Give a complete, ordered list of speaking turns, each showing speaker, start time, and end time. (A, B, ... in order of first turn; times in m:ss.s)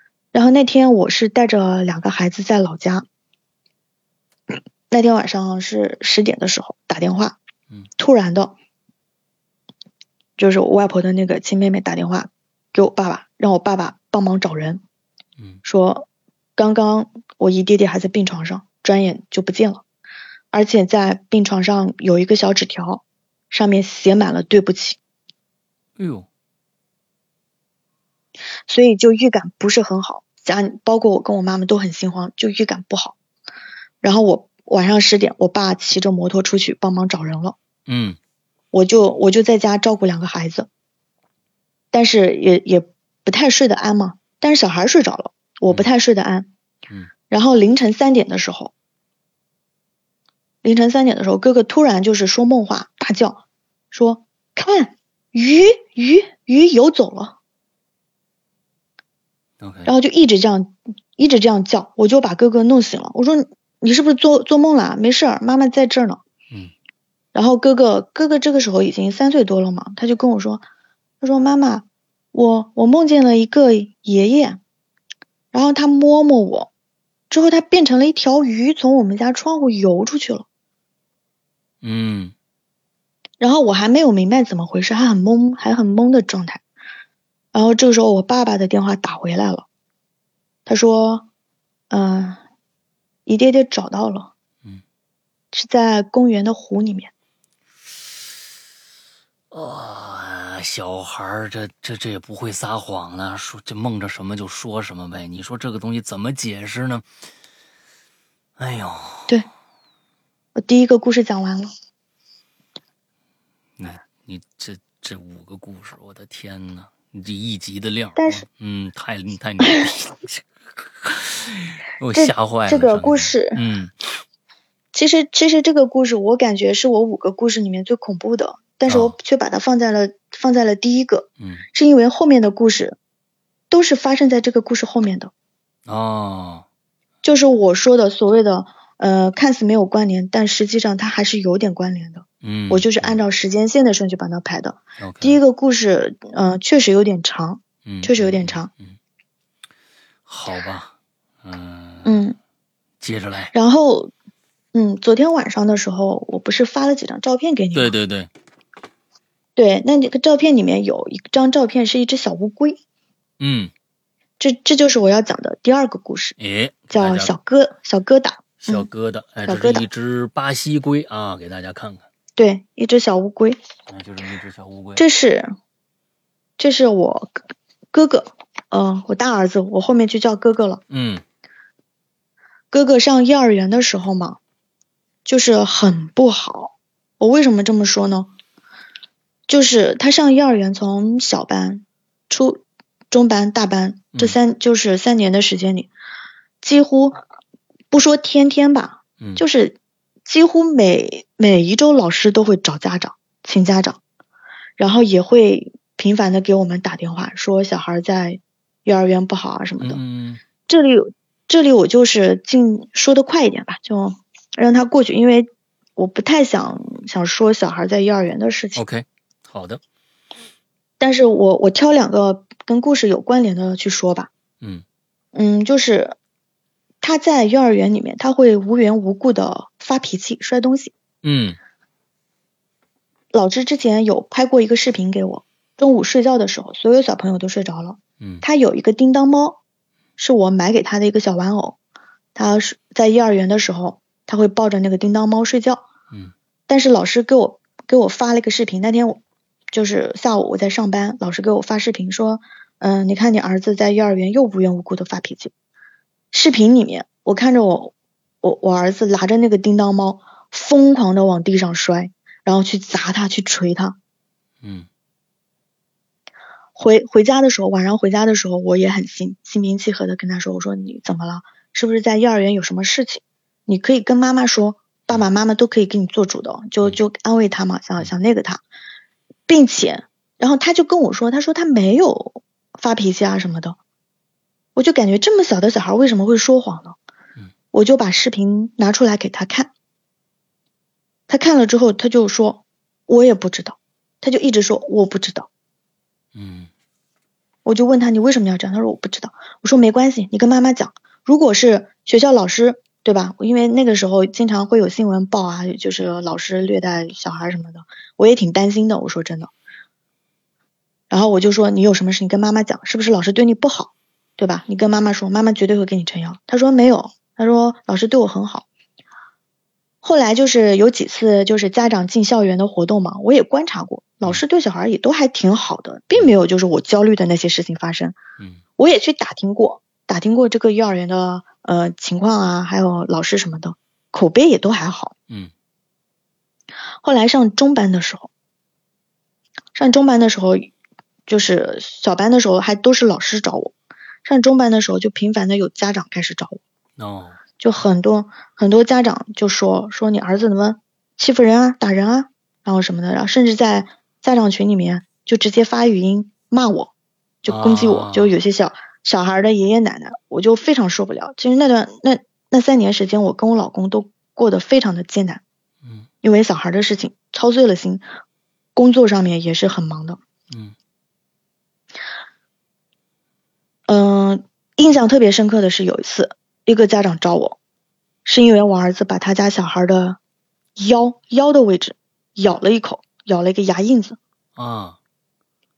0:00.3-0:03.1 A
0:04.9-0:07.4 A
0:08.0-0:08.6 A
0:10.4-0:14.8 A
0:15.6-0:19.8 A
0:20.5-0:25.0 A
0:26.0-0:26.3 B
0:28.7-0:33.2 A
0:34.0-0:37.6 A
0:37.9-0:38.2 B
0:38.7-0:40.7 A
0:41.9-0:46.5 A
0:47.3-0:48.7 A
0:50.6-0:57.4 A
0:59.6-0:59.9 B
0:59.9-1:06.2 A
1:07.3-1:10.6 A
1:11.2-1:14.6 A
1:15.5-1:16.7 A
1:17.3-1:20.5 A
1:21.8-1:22.3 B
1:23.4-1:26.6 A
1:27.5-1:29.7 A
1:30.7-1:31.3 A
1:31.9-1:32.4 A
1:33.3-1:34.3 A
1:35.5-1:37.1 A
1:39.5-1:47.1 B
1:48.6-1:49.3 B
1:50.6-1:51.7 A
1:53.8-2:03.9 B
1:58.2-1:58.4 A
2:02.1-2:03.6 A
2:04.9-2:13.0 A
2:08.9-2:09.2 B
2:13.7-2:15.3 A
2:15.9-2:16.6 B
2:17.2-2:28.7 A
2:22.4-2:23.2 B
2:25.0-2:25.4 B
2:27.8-2:29.0 B
2:30.3-2:32.2 B
2:32.0-2:32.4 A
2:33.0-2:33.5 B
2:33.5-2:34.1 A
2:34.7-2:38.0 A
2:37.7-2:38.3 B
2:39.6-2:42.8 A
2:43.4-2:43.7 B
2:44.4-2:46.4 A
2:46.4-2:47.3 B
2:46.9-2:48.9 A
2:48.6-2:52.0 B
2:49.4-2:49.9 A
2:52.4-2:53.6 A
2:53.9-2:55.0 B
2:55.0-2:55.5 A
2:56.6-2:57.4 A
2:57.9-3:00.8 A
3:00.9-3:01.2 B
3:02.7-3:04.4 A
3:05.2-3:08.3 A
3:09.5-3:15.9 A
3:16.6-3:17.2 A
3:17.9-3:24.0 A
3:24.8-3:30.0 A
3:29.8-3:30.4 B
3:30.7-3:38.8 A
3:38.8-3:39.8 B
3:41.0-3:44.3 A
3:45.3-3:46.2 A
3:47.0-3:50.9 A
3:51.2-3:51.6 B
3:53.3-3:59.6 A
4:00.2-4:01.8 A
4:02.4-4:05.8 A
4:06.7-4:09.2 A
4:09.7-4:15.5 A
4:16.3-4:24.0 A
4:24.6-4:24.9 B
4:26.8-4:38.6 A
4:39.5-4:43.8 A
4:44.8-4:47.0 A
4:47.7-4:49.7 A
4:51.3-4:55.5 A
4:56.4-4:56.7 B
4:57.6-5:09.5 A
5:11.1-5:18.7 A
5:20.0-5:28.2 A
5:28.8-5:35.1 A
5:37.0-5:38.3 A
5:39.8-5:40.7 A
5:41.3-5:43.7 A
5:44.2-5:46.6 A
5:47.0-5:47.4 B
5:47.6-5:56.9 A
5:57.4-6:05.4 A
5:57.5-5:58.4 B
6:06.2-6:08.0 A
6:08.8-6:10.2 A
6:10.5-6:10.8 B
6:13.9-6:17.6 A
6:18.2-6:20.2 A
6:20.8-6:24.2 A
6:24.6-6:25.0 B